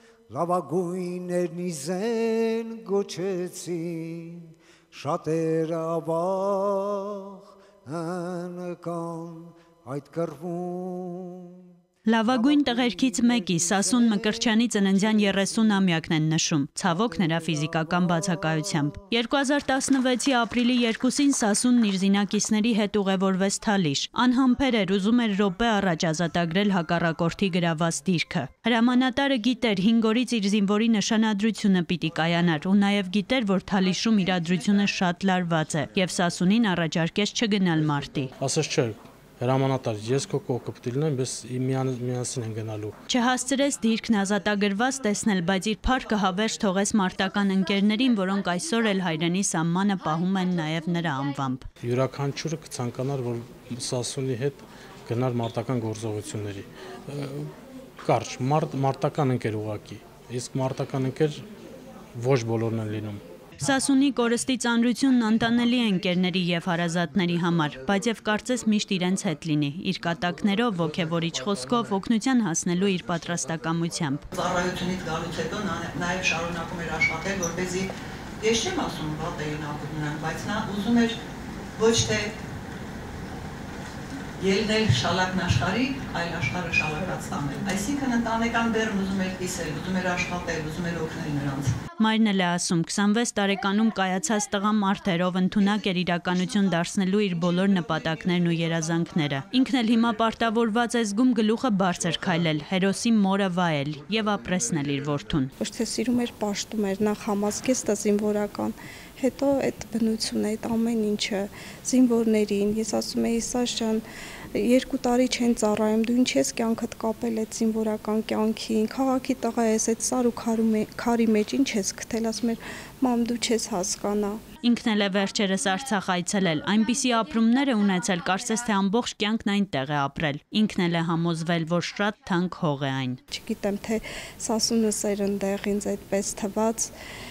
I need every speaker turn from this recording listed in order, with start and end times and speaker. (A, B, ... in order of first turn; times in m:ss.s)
0:00.3-0:11.6 A
0:12.1-0:38.3 B
0:12.3-0:16.0 A
0:16.9-0:19.1 A
0:33.8-0:34.8 C
0:38.4-0:43.0 D
0:43.1-0:51.6 B
0:51.8-0:57.5 D
0:58.0-1:01.5 D
1:02.2-1:03.2 D
1:03.6-1:14.3 B
1:14.3-1:17.9 C
1:18.4-1:21.2 C
1:21.8-1:22.3 C
1:24.4-1:31.8 C
1:32.0-1:45.5 B
1:35.6-1:36.8 C
1:37.4-1:39.5 C
1:45.6-1:54.0 E
1:54.6-2:04.4 E
2:04.6-2:13.2 B
2:13.3-2:16.9 E